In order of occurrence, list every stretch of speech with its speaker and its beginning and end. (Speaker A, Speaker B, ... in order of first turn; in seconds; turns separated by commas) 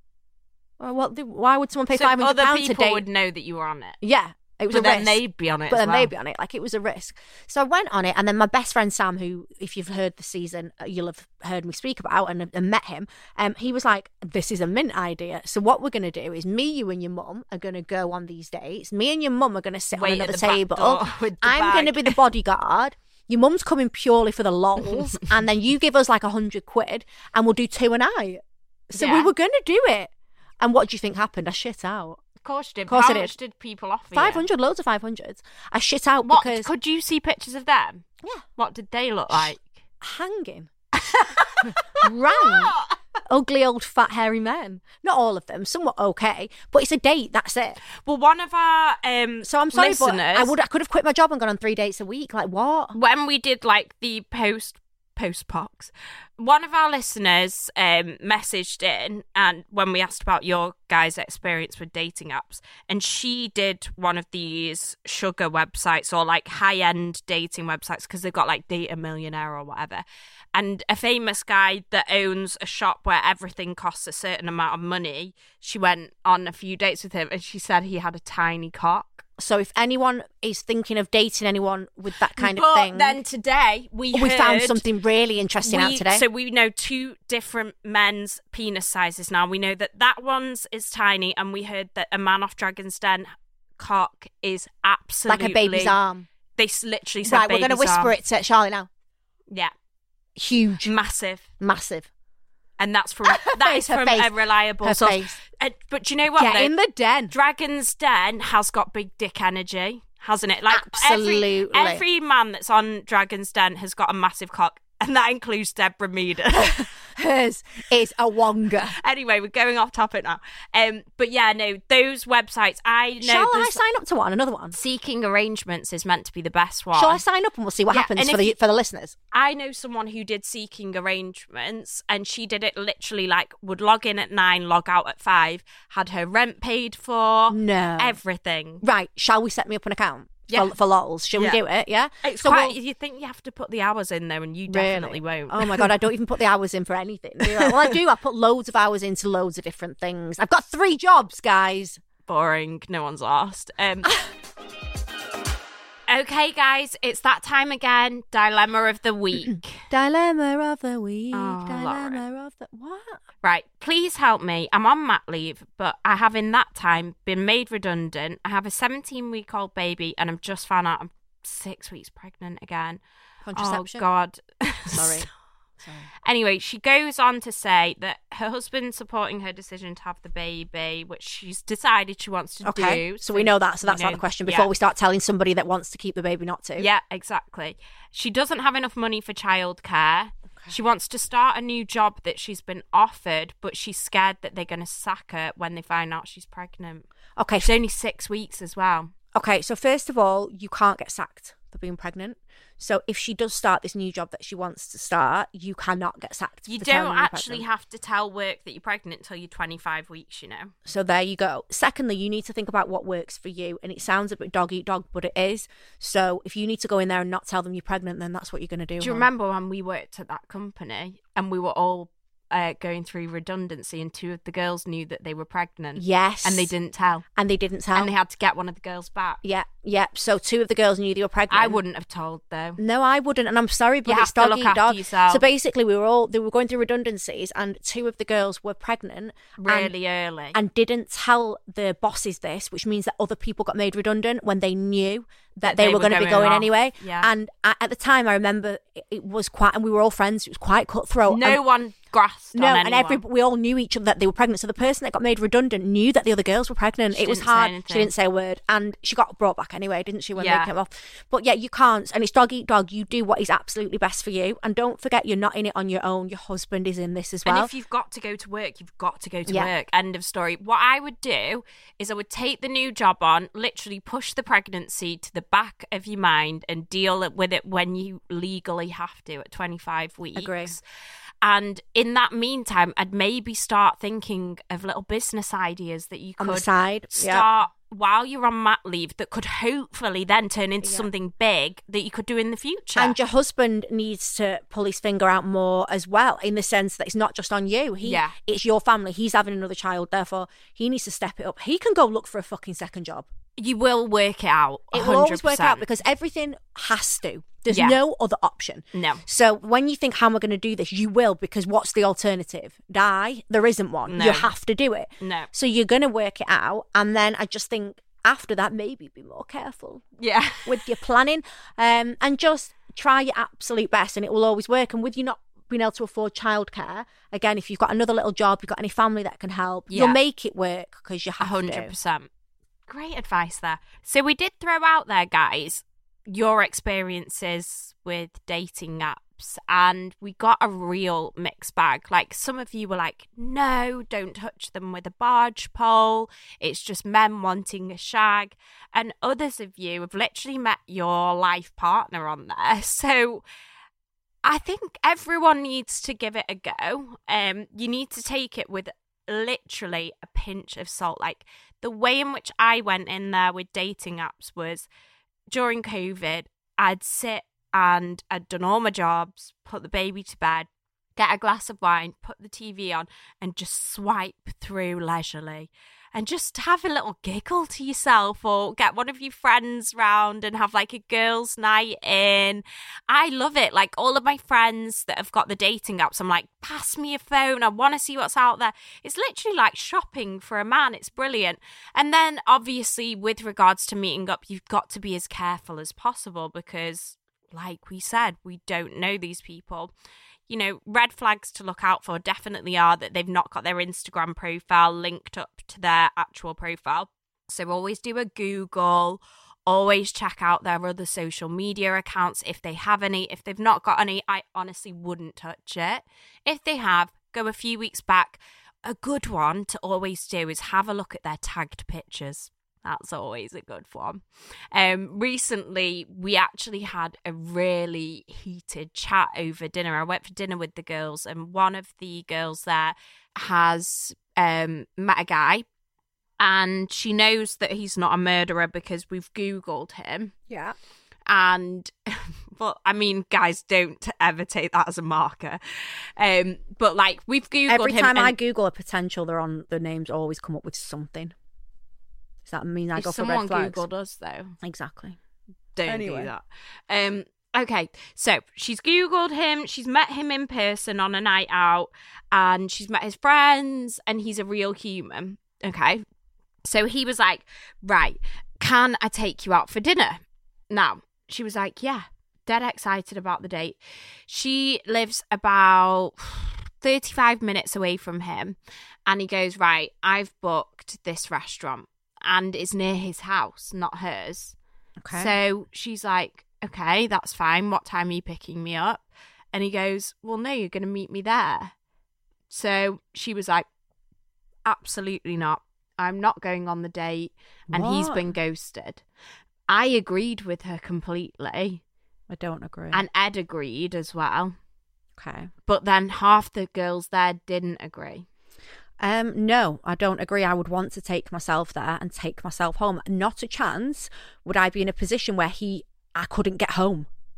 Speaker A: 0.8-3.0, Speaker B: 1.9-4.0, Speaker A: 4.0-32.2, Speaker B: 4.7-6.1, Speaker B: 20.0-22.2, Speaker B: 28.9-29.3, Speaker B: 32.4-34.5, Speaker A: 32.9-33.3, Speaker A: 34.1-36.7, Speaker B: 36.2-38.0, Speaker B: 38.6-39.8, Speaker A: 40.0-40.7, Speaker B: 41.0-42.9, Speaker A: 41.6-47.8, Speaker B: 47.9-50.5, Speaker A: 49.4-53.0, Speaker B: 52.9-79.2, Speaker A: 79.4-83.2, Speaker B: 82.4-84.8, Speaker A: 84.1-86.2, Speaker B: 85.6-96.0, Speaker A: 95.3-96.3, Speaker B: 96.6-98.2, Speaker A: 97.2-98.9, Speaker A: 100.4-100.9, Speaker B: 100.8-101.4, Speaker A: 101.6-102.1, Speaker B: 102.8-106.7, Speaker A: 103.2-105.4, Speaker A: 106.4-107.3, Speaker B: 107.3-116.9, Speaker A: 110.7-112.0, Speaker A: 116.5-119.0, Speaker B: 119.0-123.8, Speaker A: 123.2-124.8, Speaker B: 124.7-127.2, Speaker A: 126.9-129.2, Speaker B: 127.9-128.6, Speaker B: 129.3-138.8, Speaker A: 137.5-138.2, Speaker A: 138.8-142.8, Speaker B: 140.5-140.7, Speaker B: 141.3-141.6, Speaker B: 142.2-145.9, Speaker A: 144.7-152.0, Speaker B: 147.4-148.0, Speaker B: 152.3-154.1, Speaker B: 156.1-159.8, Speaker A: 159.5-163.2, Speaker B: 161.3-162.2, Speaker B: 163.4-173.0, Speaker A: 173.4-174.1, Speaker B: 173.6-175.3, Speaker A: 174.9-175.3, Speaker A: 175.8-176.1, Speaker B: 176.2-184.7, Speaker A: 182.6-186.9, Speaker B: 186.8-197.1, Speaker A: 197.4-197.7, Speaker B: 197.6-199.1, Speaker A: 199.3-207.7, Speaker B: 206.7-210.7, Speaker A: 210.9-219.3, Speaker B: 219.0-227.2, Speaker A: 226.0-226.7, Speaker A: 227.4-228.1, Speaker B: 227.9-229.4, Speaker A: 229.4-231.8, Speaker B: 231.5-232.8, Speaker A: 232.8-239.9, Speaker B: 234.1-235.4, Speaker B: 239.6-240.6, Speaker A: 240.5-251.6, Speaker B: 245.6-247.3, Speaker B: 251.3-253.2, Speaker A: 252.5-267.7, Speaker B: 257.1-258.1, Speaker B: 260.4-260.7, Speaker B: 267.5-280.8, Speaker A: 280.4-280.8, Speaker B: 281.4-293.2, Speaker A: 286.4-287.5, Speaker A: 290.8-291.1, Speaker A: 292.9-303.3, Speaker B: 298.0-298.4, Speaker B: 303.6-305.8, Speaker A: 304.9-320.1, Speaker B: 307.7-308.0, Speaker B: 308.9-309.2, Speaker B: 314.1-314.5, Speaker B: 315.2-315.5, Speaker B: 320.2-320.9, Speaker A: 320.6-331.9, Speaker B: 329.9-330.2, Speaker B: 331.4-332.3, Speaker B: 332.9-353.4, Speaker B: 354.4-364.9, Speaker B: 365.5-399.9, Speaker B: 400.5-435.7, Speaker B: 436.4-440.3, Speaker A: 440.5-440.8, Speaker B: 441.3-448.4, Speaker A: 447.7-451.4, Speaker A: 452.5-453.9, Speaker B: 453.0-454.6, Speaker A: 454.6-455.2, Speaker B: 455.8-466.1, Speaker A: 455.9-456.3, Speaker B: 466.6-484.6, Speaker A: 485.0-485.3, Speaker B: 485.1-491.7, Speaker B: 492.5-493.7, Speaker B: 494.6-499.0, Speaker A: 497.7-498.3, Speaker B: 499.7-501.8, Speaker A: 502.3-503.0, Speaker B: 502.9-504.6, Speaker A: 505.2-505.5, Speaker B: 505.7-508.3, Speaker A: 509.0-517.1